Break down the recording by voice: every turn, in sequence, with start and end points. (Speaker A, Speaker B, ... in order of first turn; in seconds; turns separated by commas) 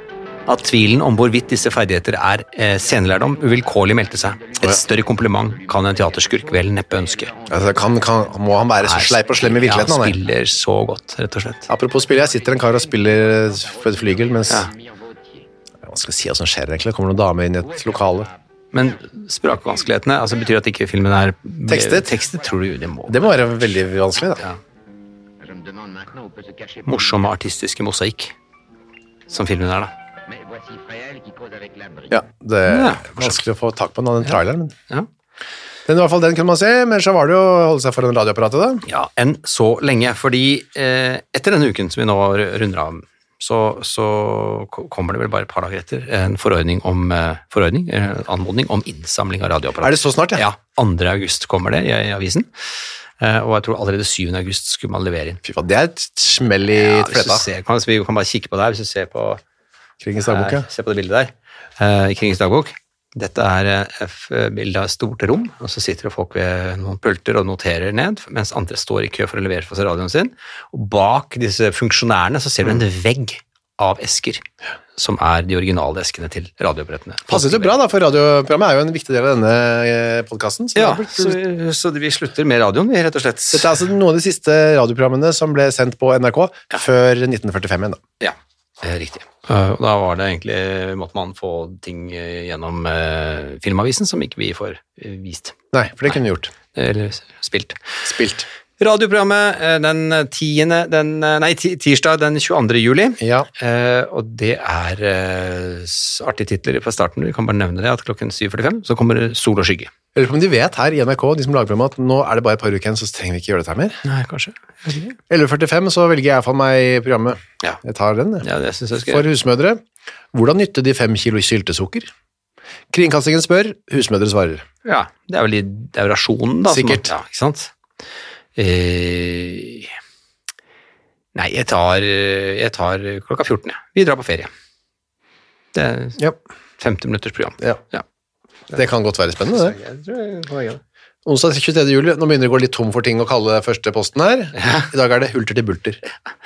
Speaker A: 0.5-7.3, Speaker B: 2.6-10.5, Speaker C: 7.5-10.2, Speaker A: 8.8-11.7, Speaker C: 11.7-14.7, Speaker B: 11.7-15.5, Speaker C: 15.8-18.3, Speaker B: 17.6-20.6, Speaker A: 18.7-23.3, Speaker C: 21.7-22.2, Speaker B: 22.0-23.1, Speaker C: 23.1-24.4, Speaker B: 25.4-27.3, Speaker A: 26.9-28.3, Speaker A: 29.3-29.9, Speaker B: 30.2-32.2, Speaker C: 32.1-34.7, Speaker A: 32.7-33.4, Speaker C: 35.9-38.8, Speaker A: 38.9-52.5, Speaker C: 49.8-50.5, Speaker A: 53.2-55.4, Speaker C: 55.4-57.5, Speaker A: 56.8-59.4, Speaker C: 60.0-60.7, Speaker A: 60.2-74.4, Speaker A: 75.0-77.7, Speaker C: 77.3-81.4, Speaker A: 80.7-83.8, Speaker C: 83.5-88.0, Speaker A: 88.2-95.5, Speaker C: 95.7-96.5, Speaker A: 96.7-97.8, Speaker C: 98.0-98.5, Speaker A: 98.8-109.9, Speaker C: 103.2-103.5, Speaker C: 110.1-114.0, Speaker A: 114.0-115.2, Speaker C: 115.3-118.5, Speaker A: 118.4-119.2, Speaker C: 119.0-119.8, Speaker C: 120.3-122.1, Speaker C: 122.9-124.6, Speaker A: 124.8-127.7, Speaker C: 126.7-127.1, Speaker A: 128.6-130.0, Speaker A: 131.3-134.5, Speaker A: 135.7-136.2, Speaker A: 136.8-138.0, Speaker C: 138.7-139.8, Speaker A: 139.4-140.8, Speaker C: 141.2-146.0, Speaker A: 144.6-144.9